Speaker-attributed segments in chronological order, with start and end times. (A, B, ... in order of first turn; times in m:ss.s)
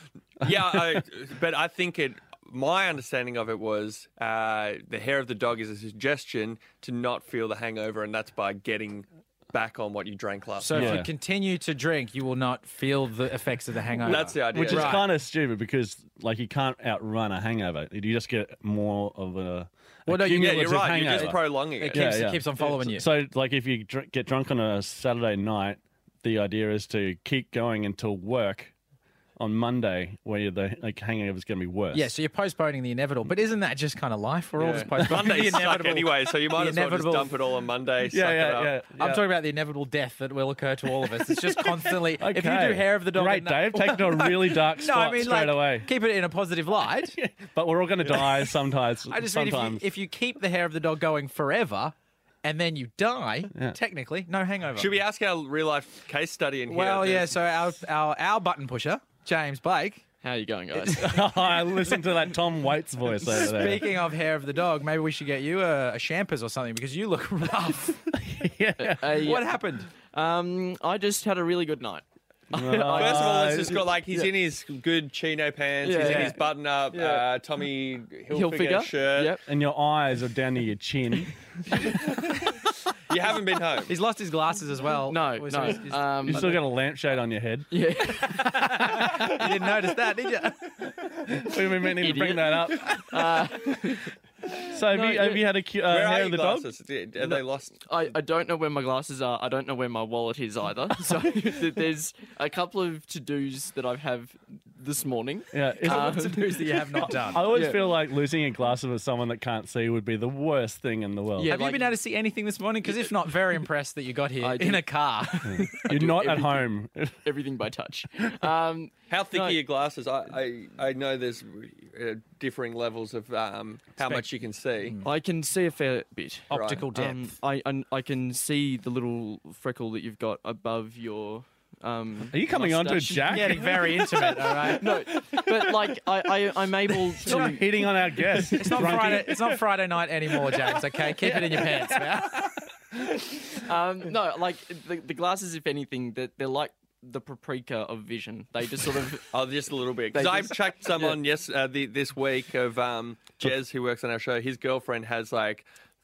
0:00.4-0:11.0 A
0:00.4-0:01.0 B
0:10.6-0:15.0 C
0:10.7-0:11.1 B
0:14.0-0:15.0 A
0:14.0-0:28.7 B
0:20.1-0:23.1 C
0:20.3-0:22.0 A
0:29.4-0:32.1 B
0:31.9-0:37.3 C
0:34.6-0:38.8 A
0:38.1-0:39.2 B
0:39.0-0:47.2 C
0:41.0-0:45.9 B
0:47.2-0:49.8 B
0:49.1-0:54.9 C
0:54.8-0:57.4 A
0:56.7-1:00.0 C
1:00.2-1:01.5 D
1:00.8-1:03.9 B
1:03.3-1:08.0 C
1:08.2-1:09.3 B
1:08.8-1:14.3 D
1:09.1-1:09.9 C
1:12.5-1:13.8 B
1:12.9-1:19.4 A
1:15.8-1:17.3 D
1:16.0-1:16.4 C
1:18.3-1:19.4 D
1:19.4-1:21.9 B
1:23.1-1:23.9 A
1:23.9-1:26.6 C
1:25.1-1:26.5 D
1:26.3-1:27.7 B
1:27.7-1:29.3 D
1:28.3-1:30.6 C
1:28.4-1:29.3 B
1:31.2-1:33.4 B
1:31.9-1:35.5 D
1:34.7-1:36.7 B
1:35.9-1:37.8 A
1:37.2-1:47.9 D
1:45.5-1:51.6 B
1:45.8-1:47.5 C
1:51.4-1:52.0 D
1:51.5-1:55.9 C
1:54.4-1:54.9 D
1:55.5-1:57.2 B
1:55.8-1:56.7 D
1:57.2-1:59.6 D
1:59.1-2:05.0 A
2:05.0-2:19.0 D
2:06.5-2:07.3 C
2:06.5-2:06.9 A
2:12.3-2:14.7 B
2:13.2-2:14.9 C
2:17.2-2:19.4 B
2:18.6-2:22.5 C
2:21.2-2:21.7 D
2:23.5-2:29.3 D
2:29.3-2:35.7 A
2:30.1-2:31.2 D